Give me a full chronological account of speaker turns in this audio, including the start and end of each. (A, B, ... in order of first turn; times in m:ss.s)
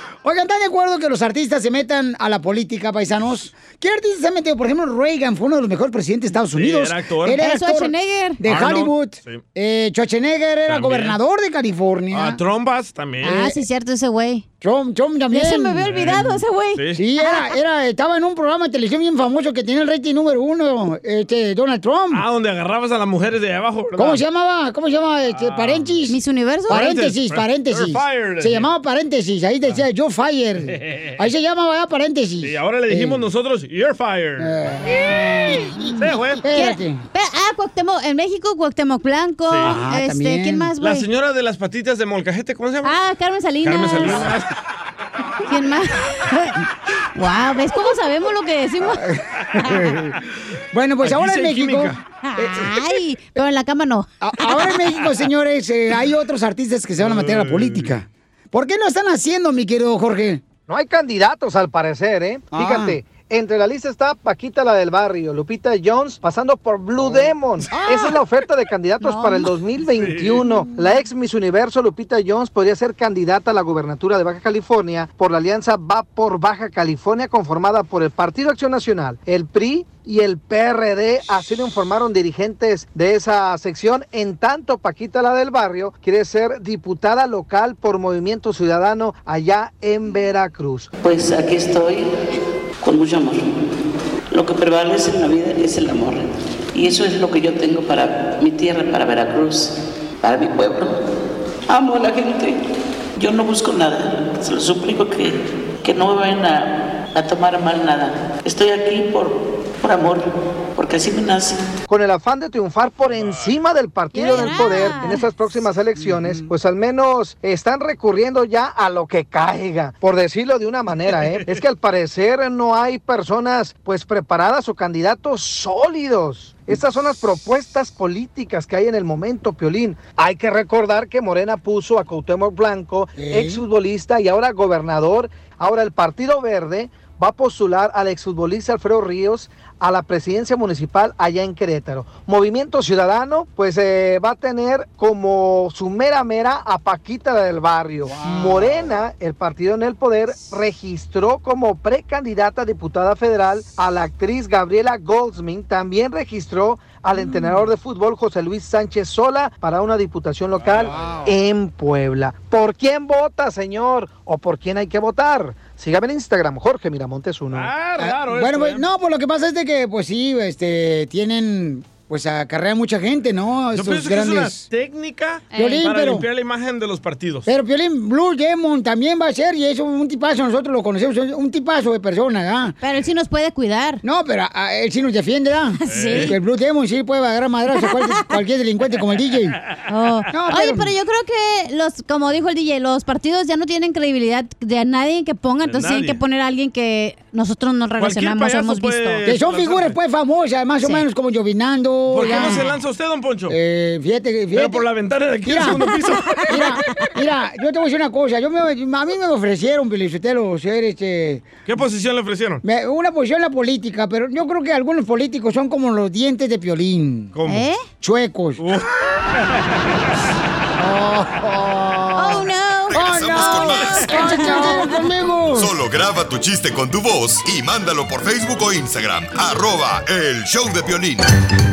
0:00.2-0:12.4 A
0:06.5-0:07.4 B
0:07.4-0:08.4 C
0:08.4-0:09.4 B
0:10.7-0:11.2 B
0:12.1-0:13.5 B
0:13.2-0:14.4 C
0:14.6-0:15.9 A
0:15.3-0:17.5 C
0:15.8-0:17.0 B
0:16.9-0:22.2 A
0:22.1-0:24.2 B
0:24.0-0:33.2 A
0:25.3-0:25.9 B
0:26.1-0:26.8 C
0:26.7-0:28.7 B
0:30.7-0:31.1 B
0:32.4-0:34.6 B
0:34.4-0:37.0 A
0:34.8-0:41.1 C
0:36.0-0:36.4 B
0:39.5-0:39.8 B
0:39.6-0:40.7 A
0:40.8-0:43.0 B
0:42.8-0:44.3 C
0:43.6-0:44.5 B
0:45.5-0:46.6 C
0:47.1-0:49.0 C
0:48.8-0:50.2 A
0:49.6-0:49.9 C
0:50.7-0:52.8 A
0:51.0-0:52.0 B
0:52.2-0:54.8 C
0:54.2-1:00.4 A
0:57.0-0:57.9 B
1:00.7-1:30.9 D
1:02.5-1:03.0 A
1:07.7-1:08.2 A
1:09.0-1:09.5 C
1:09.9-1:10.5 B
1:31.0-1:32.1 E
1:32.8-1:33.4 E
1:34.3-1:41.0 E
1:41.7-1:42.6 E
1:43.2-1:51.6 E
1:51.9-2:47.7 D
1:53.1-1:53.5 B
1:54.1-1:55.2 C
1:56.0-1:56.5 A
2:01.1-2:01.6 B
2:13.2-2:13.6 A
2:28.0-2:28.9 A
2:40.6-2:40.9 B
2:40.9-2:41.3 A
2:47.5-2:48.8 B
2:48.0-2:54.6 A
2:53.7-2:57.5 B
2:55.5-2:55.8 C
2:55.5-2:56.2 A
2:57.4-3:02.8 A
3:02.8-3:04.0 C
3:04.0-3:09.6 A
3:05.8-3:06.3 C
3:05.9-3:06.4 B
3:09.9-3:19.2 C
3:10.3-3:10.9 A
3:15.6-3:16.2 B
3:18.0-3:20.0 B
3:19.2-3:22.6 A
3:22.1-3:23.6 B
3:22.2-3:22.7 C
3:23.5-3:24.9 A
3:24.5-3:26.4 B
3:25.4-3:25.9 A
3:26.3-3:26.9 C
3:26.4-3:31.6 A
3:31.6-3:32.6 B
3:32.6-3:37.3 A
3:37.3-3:37.7 B
3:37.4-3:37.8 C
3:38.0-3:38.6 A
3:38.6-3:38.9 B
3:40.8-3:45.8 A
3:42.2-3:45.0 C
3:42.9-3:44.1 F
3:45.6-3:51.3 F